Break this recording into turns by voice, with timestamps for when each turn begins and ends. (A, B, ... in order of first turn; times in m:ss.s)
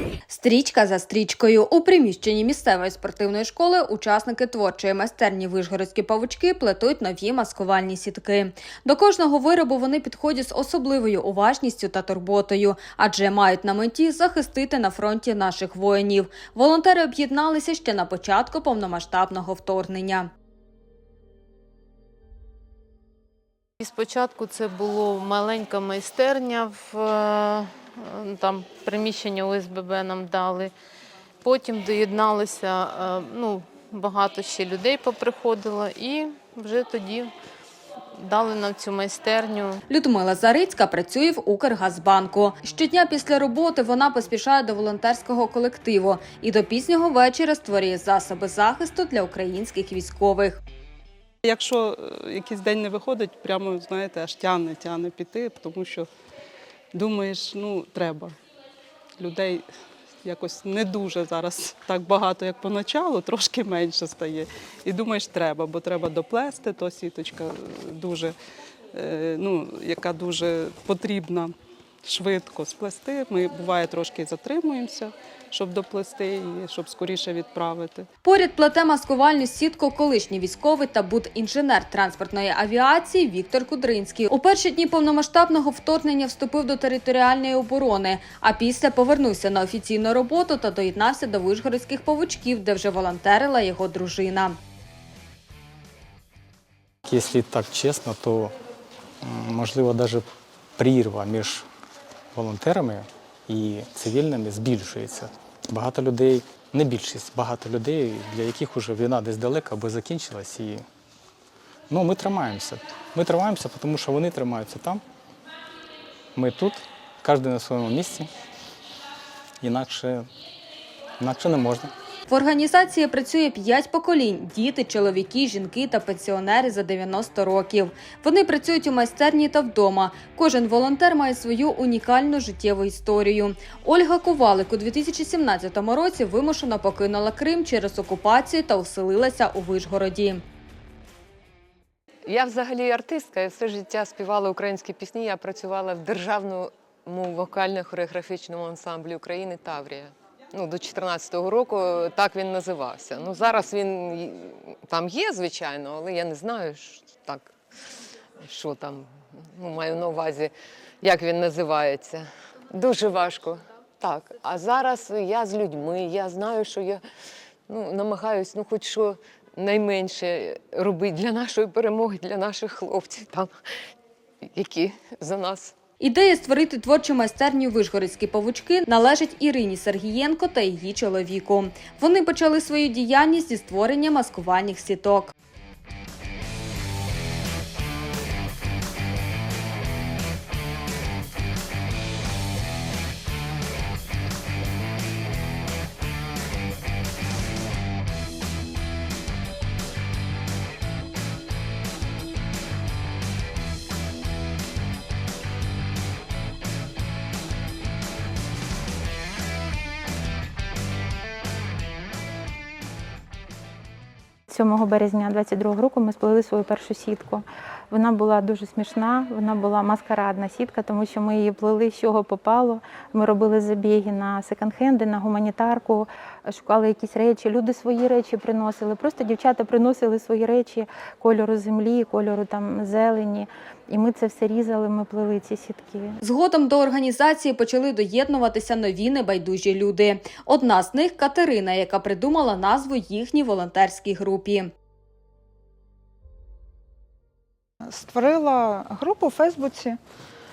0:00.3-0:20.3 A
0:23.8-0:30.7 B
0:31.4-0:37.3 B
0:38.2-0:39.8 B
0:39.9-0:50.6 A
0:51.4-0:56.1 C
0:56.9-0:58.3 C
0:59.2-0:59.6 C
1:00.2-1:08.3 C
1:08.9-1:18.1 C
1:18.2-1:34.6 A
1:37.0-1:38.5 D
1:39.2-1:40.2 D
1:40.8-1:41.6 D
1:42.3-1:50.8 D
1:51.9-1:55.0 D
1:56.3-1:58.3 D
1:59.6-2:00.2 D
2:01.2-2:01.9 D
2:02.3-2:20.4 A
2:22.2-2:47.0 E
2:47.7-2:53.5 E
2:54.4-2:55.7 E
2:56.0-3:05.3 A
3:34.5-3:56.2 F
3:56.2-4:04.7 A
4:07.8-4:10.0 G